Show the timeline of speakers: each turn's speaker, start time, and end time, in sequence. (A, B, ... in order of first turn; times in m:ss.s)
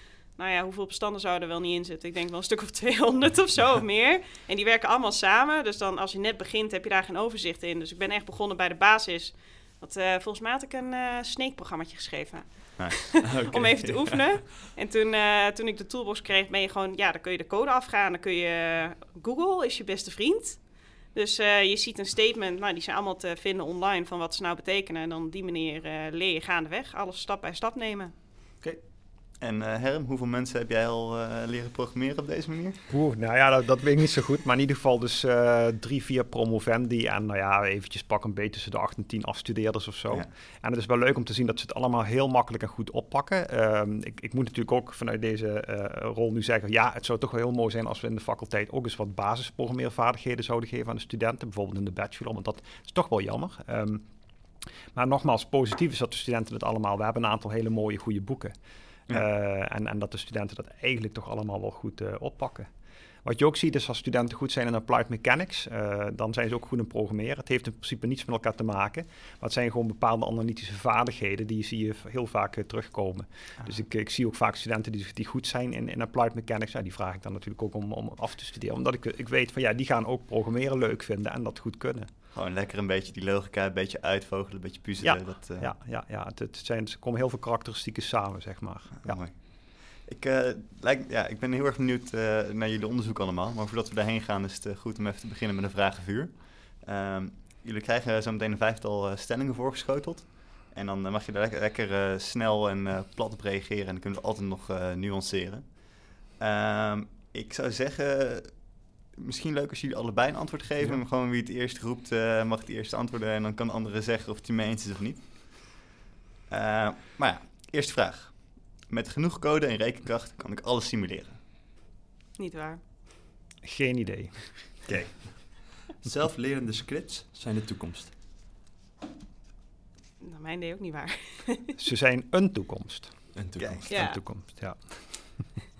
0:00.3-0:28.1 A
0:12.8-0:13.1 B
0:13.2-0:14.5 C
0:29.4-0:32.8 B
0:32.9-0:54.0 D
0:54.9-0:58.5 D
0:59.1-1:02.7 D
1:03.2-1:22.1 D
1:22.3-1:25.7 B
1:25.0-1:29.2 D
1:29.0-1:55.9 B
1:56.5-2:01.4 B
2:02.4-2:02.8 A
2:03.6-2:05.2 D
2:05.9-2:08.1 C
2:10.2-2:11.7 A
2:11.8-2:15.5 D
2:13.3-2:13.9 C
2:13.6-2:13.9 B
2:13.9-2:14.2 A